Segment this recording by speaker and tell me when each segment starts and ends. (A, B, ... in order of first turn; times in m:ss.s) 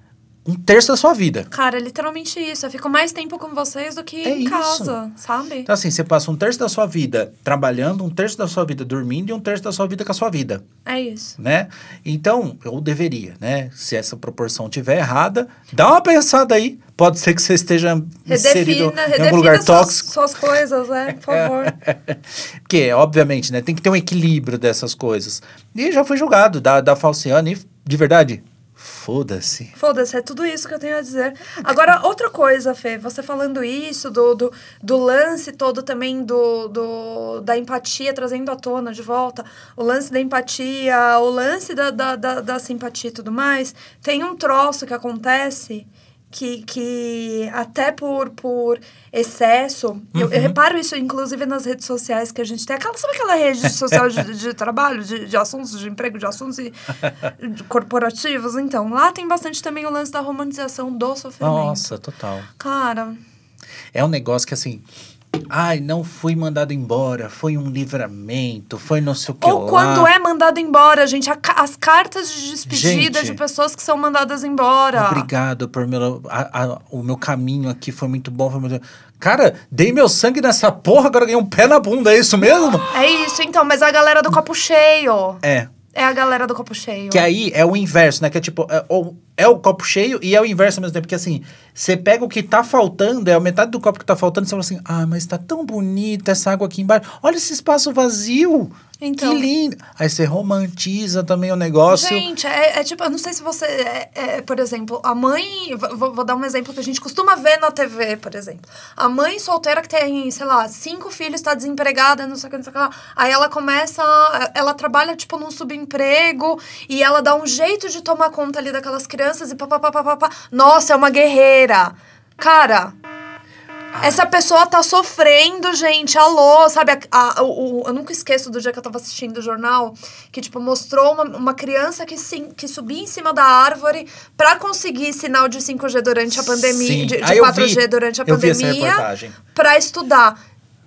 0:00.4-0:01.5 A
0:01.5-0:05.7 B
0:04.2-0:05.0 A
0:05.7-0:10.6 A
0:10.8-0:11.4 B
0:11.4-0:20.1 A
0:18.3-0:21.7 B
0:21.2-0:29.8 A
0:29.8-1:01.9 B
0:50.1-0:50.6 A
1:01.4-1:02.5 A
1:02.6-1:03.2 B
1:03.9-1:10.1 A
1:09.4-1:15.3 B
1:12.7-1:13.4 A
1:15.0-1:22.9 A
1:22.8-1:25.4 B
1:25.4-1:25.7 A
1:25.9-1:27.3 B
1:27.1-1:42.3 A
1:39.0-1:39.5 B
1:41.9-2:03.0 B
2:03.9-2:04.2 A
2:04.0-2:20.4 B
2:16.5-2:19.4 A